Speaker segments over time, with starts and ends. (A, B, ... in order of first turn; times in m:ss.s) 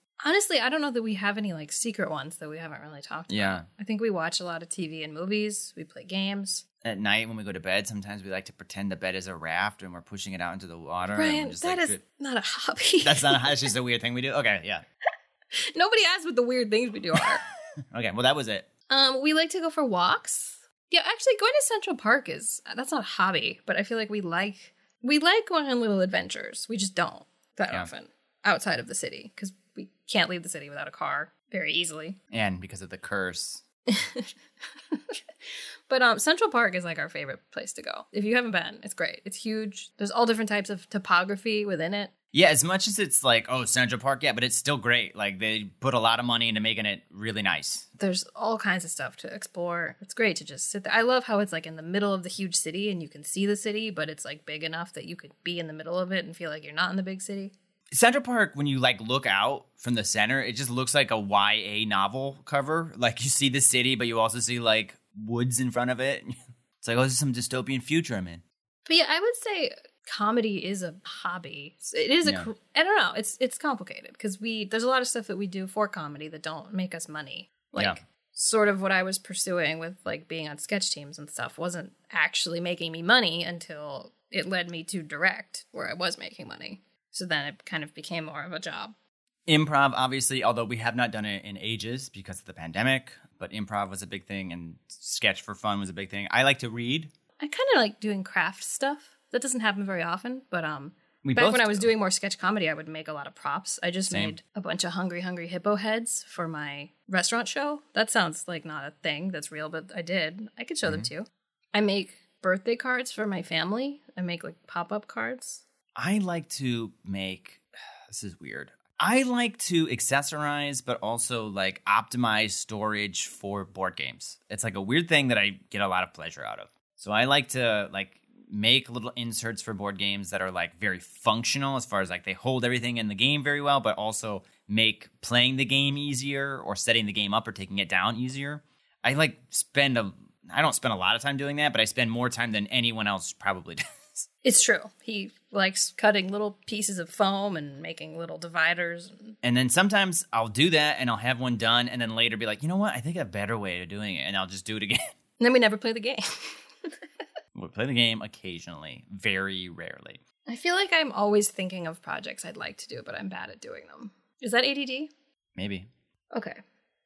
0:00.2-0:06.6 A
0:03.3-0:03.7 B
0:06.8-0:12.0 B
0:11.1-0:13.7 A
0:13.0-0:14.8 B
0:15.5-0:17.4 A
0:17.9-0:18.7 B
0:18.9-0:32.2 A
0:32.3-0:33.6 B
0:33.9-0:34.3 A
0:34.9-0:35.2 A
0:35.9-0:42.1 A
0:42.3-0:47.9 B
0:48.0-0:57.5 A
0:57.9-1:08.4 B
1:08.9-1:28.9 A
1:12.2-1:12.5 B
1:29.5-1:37.1 B
1:37.4-1:55.6 A
1:41.2-1:41.9 B
1:44.1-1:44.4 B
1:56.0-2:24.3 B
2:24.4-2:29.4 A
2:29.4-2:35.1 B
2:35.4-2:37.0 A
2:37.6-2:40.2 B
2:40.5-2:45.1 A
2:45.6-2:45.9 B
2:46.3-2:46.6 A